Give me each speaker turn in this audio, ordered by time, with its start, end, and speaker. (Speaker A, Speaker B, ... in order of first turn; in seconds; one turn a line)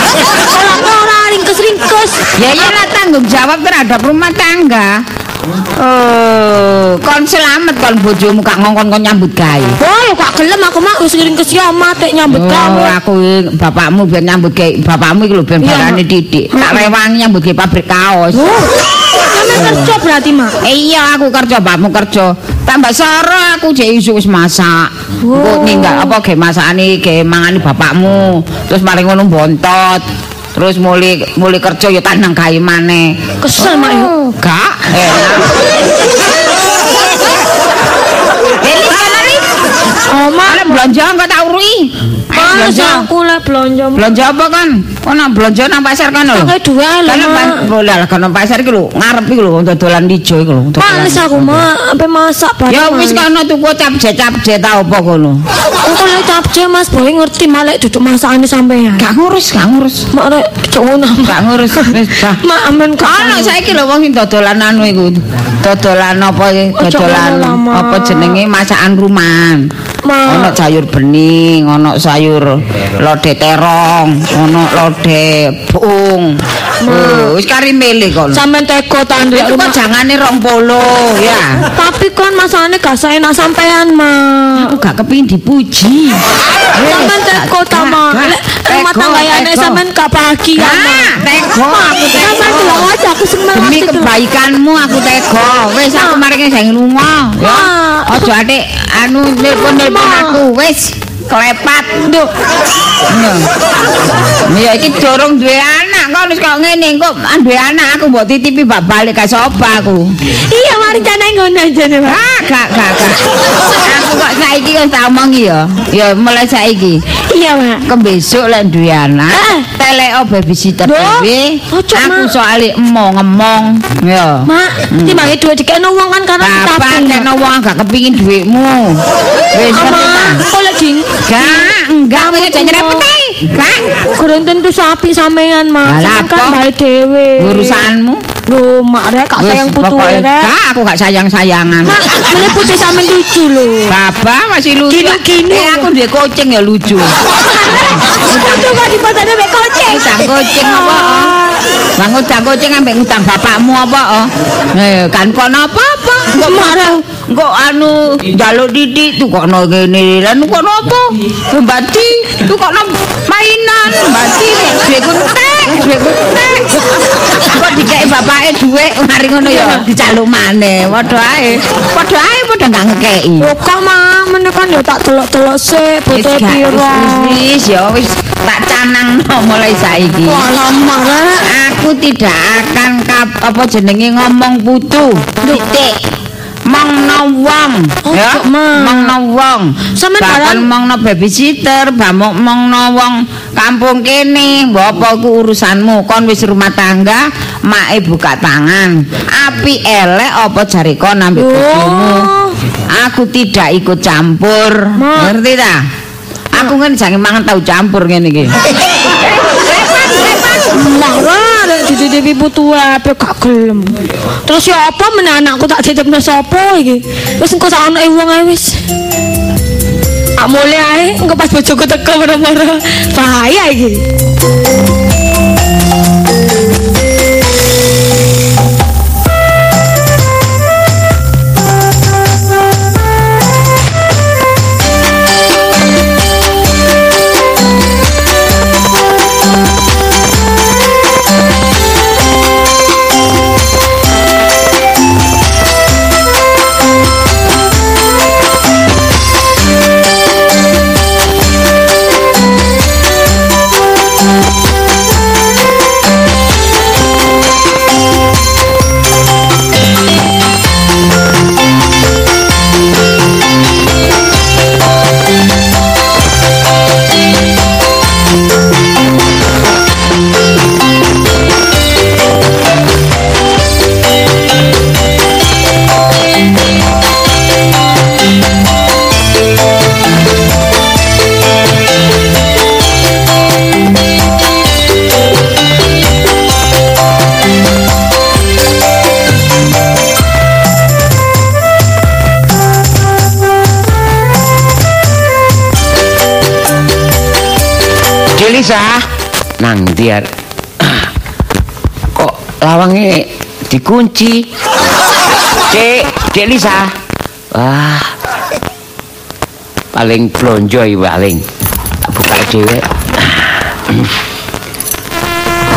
Speaker A: 0.2-2.2
Speaker B: 2.4-5.0
Speaker B: 5.8-9.8
Speaker A: 9.8-13.0
Speaker B: 12.3-18.5
Speaker A: 15.6-16.9
Speaker A: 18.3-20.6
Speaker B: 19.5-19.9
Speaker B: 20.6-35.5
Speaker A: 25.2-26.2
Speaker A: 33.4-34.3
Speaker B: 38.6-39.5
Speaker A: 40.1-40.8
Speaker B: 40.5-43.1
Speaker A: 42.3-44.1
Speaker B: 43.9-46.5
Speaker A: 46.3-47.6
Speaker B: 47.0-51.6
Speaker A: 50.8-53.2
Speaker B: 52.7-55.4
Speaker A: 55.8-59.0
Speaker B: 59.0-60.0
Speaker A: 60.1-63.5
Speaker B: 61.2-62.4
Speaker B: 63.0-69.7
Speaker A: 66.8-68.4
Speaker A: 70.0-70.6
Speaker B: 70.3-78.4
Speaker A: 76.8-77.3
Speaker A: 78.3-79.8
Speaker B: 79.3-81.6
Speaker A: 81.7-84.7
Speaker B: 84.5-86.2
Speaker B: 86.7-89.8
Speaker A: 86.8-91.2
Speaker B: 90.5-92.9
Speaker A: 91.7-94.1
Speaker B: 93.5-102.2
Speaker A: 95.9-96.2
Speaker A: 97.4-98.3
Speaker A: 99.5-100.4
Speaker B: 103.1-103.5
Speaker B: 104.5-110.1
Speaker A: 110.5-112.2
Speaker B: 112.0-113.2
Speaker B: 113.8-117.0
Speaker A: 117.3-117.8
Speaker B: 117.8-125.3
Speaker A: 119.3-119.7
Speaker A: 120.8-122.3
Speaker A: 124.5-127.3
Speaker B: 126.4-130.4
Speaker A: 129.7-133.1
Speaker B: 131.3-133.9
Speaker A: 134.1-137.8
Speaker B: 135.8-136.6
Speaker B: 137.4-138.2
Speaker A: 138.5-140.5
Speaker B: 139.4-142.0
Speaker A: 141.8-143.9
Speaker B: 143.9-147.1
Speaker A: 144.9-145.9
Speaker A: 147.4-151.6
Speaker B: 147.7-148.8
Speaker B: 149.9-151.3
Speaker B: 151.9-166.7
Speaker A: 156.3-157.0
Speaker B: 167.4-173.5
Speaker A: 169.4-169.9
Speaker A: 173.4-177.4
Speaker B: 176.1-180.4
Speaker A: 180.2-181.5
Speaker B: 181.4-186.0
Speaker B: 186.7-202.3
Speaker A: 188.0-189.1
Speaker A: 189.9-190.7
Speaker A: 201.3-202.6
Speaker B: 202.9-205.8
Speaker A: 205.0-205.4
Speaker B: 206.5-208.5
Speaker B: 209.5-210.7
Speaker A: 210.7-218.8
Speaker A: 220.4-224.0
Speaker C: 298.3-299.1
Speaker C: 299.6-300.3
Speaker C: 300.8-301.1
Speaker C: 302.1-304.4
Speaker C: 305.7-306.9
Speaker C: 307.5-308.1
Speaker C: 309.9-311.4
Speaker C: 312.0-314.1